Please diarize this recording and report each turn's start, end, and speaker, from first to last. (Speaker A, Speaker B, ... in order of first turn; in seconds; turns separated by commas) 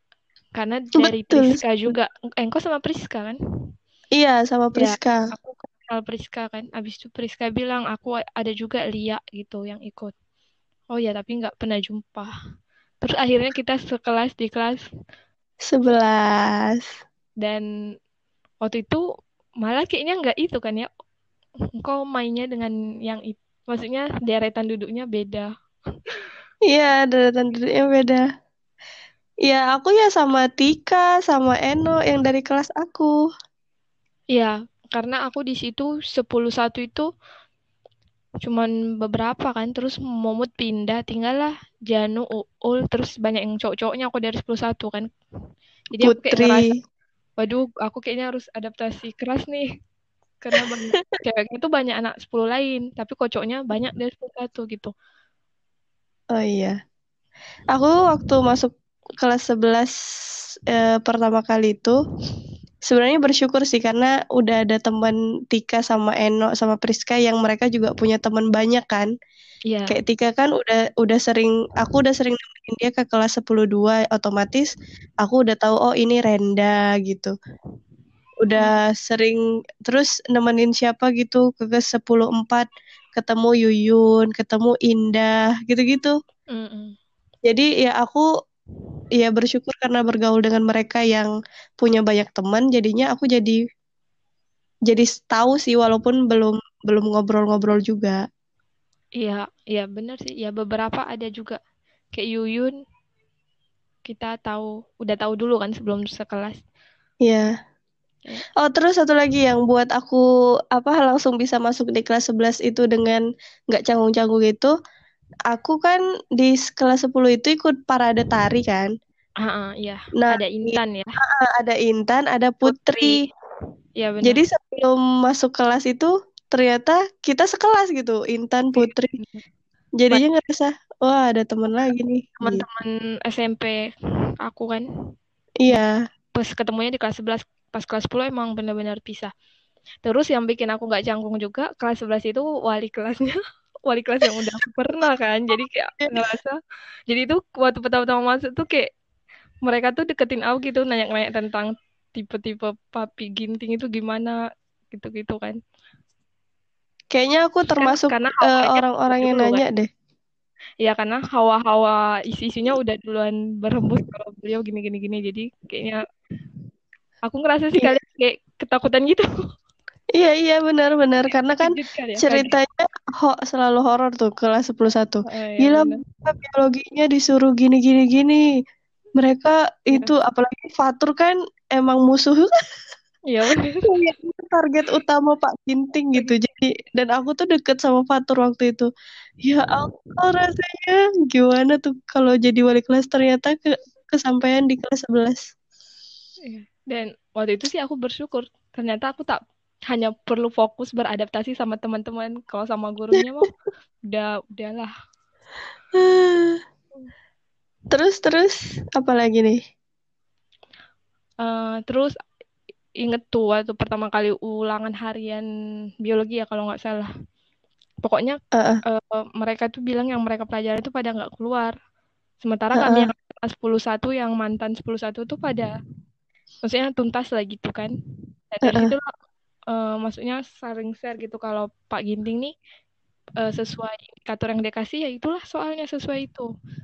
Speaker A: 0.6-3.4, Speaker B: 1.0-1.9, Speaker B: 4.2-5.2, Speaker A: 4.8-10.1, Speaker A: 10.9-12.3, Speaker A: 13.0-14.8, Speaker B: 15.7-16.9, Speaker A: 17.4-17.7, Speaker A: 18.6-19.0, Speaker A: 19.6-20.9, Speaker A: 21.8-25.5, Speaker B: 26.7-28.2, Speaker B: 29.4-33.1, Speaker A: 34.3-37.1, Speaker A: 38.4-45.0, Speaker A: 45.9-46.7, Speaker B: 46.0-46.6, Speaker A: 47.4-49.7, Speaker A: 50.4-54.9, Speaker B: 50.6-51.0, Speaker B: 56.3-56.8, Speaker B: 57.7-59.9, Speaker B: 60.7-62.0, Speaker B: 62.9-69.1, Speaker A: 69.7-70.0, Speaker B: 69.9-77.3, Speaker B: 78.4-86.1, Speaker A: 86.5-86.9, Speaker B: 87.4-88.2, Speaker B: 89.2-91.3, Speaker B: 91.8-93.6, Speaker B: 94.9-98.2, Speaker A: 99.2-101.6, Speaker A: 102.1-102.7, Speaker A: 104.0-106.6, Speaker B: 107.2-107.5, Speaker B: 108.6-114.7, Speaker B: 115.5-118.9, Speaker A: 119.4-121.2, Speaker B: 120.2-123.2, Speaker A: 122.6-123.2, Speaker A: 124.0-124.4, Speaker B: 124.2-129.2, Speaker A: 128.7-129.4, Speaker B: 130.0-132.6, Speaker A: 132.4-133.9, Speaker A: 134.4-134.8, Speaker B: 135.6-136.0, Speaker A: 136.3-139.3, Speaker A: 140.0-143.4, Speaker A: 143.9-146.6, Speaker A: 147.1-148.9, Speaker A: 149.6-154.4, Speaker A: 154.9-155.6, Speaker B: 157.1-159.9, Speaker A: 157.7-159.6, Speaker A: 160.8-166.0, Speaker A: 167.3-169.3, Speaker B: 170.1-178.4, Speaker A: 171.6-172.5, Speaker A: 175.2-176.0, Speaker B: 179.2-182.5, Speaker A: 183.3-183.9, Speaker B: 183.8-188.9, Speaker B: 189.4-195.5, Speaker A: 196.4-199.4, Speaker A: 199.9-203.5, Speaker A: 204.1-204.9, Speaker B: 205.9-206.6, Speaker B: 207.9-209.6, Speaker A: 211.4-212.1, Speaker A: 213.0-215.4, Speaker A: 216.0-217.1, Speaker A: 218.0-221.7, Speaker B: 218.5-218.8, Speaker A: 222.4-225.7, Speaker B: 222.8-223.1, Speaker A: 226.6-227.9, Speaker A: 228.5-229.1, Speaker B: 228.6-228.9, Speaker A: 229.7-232.5, Speaker A: 233.4-236.5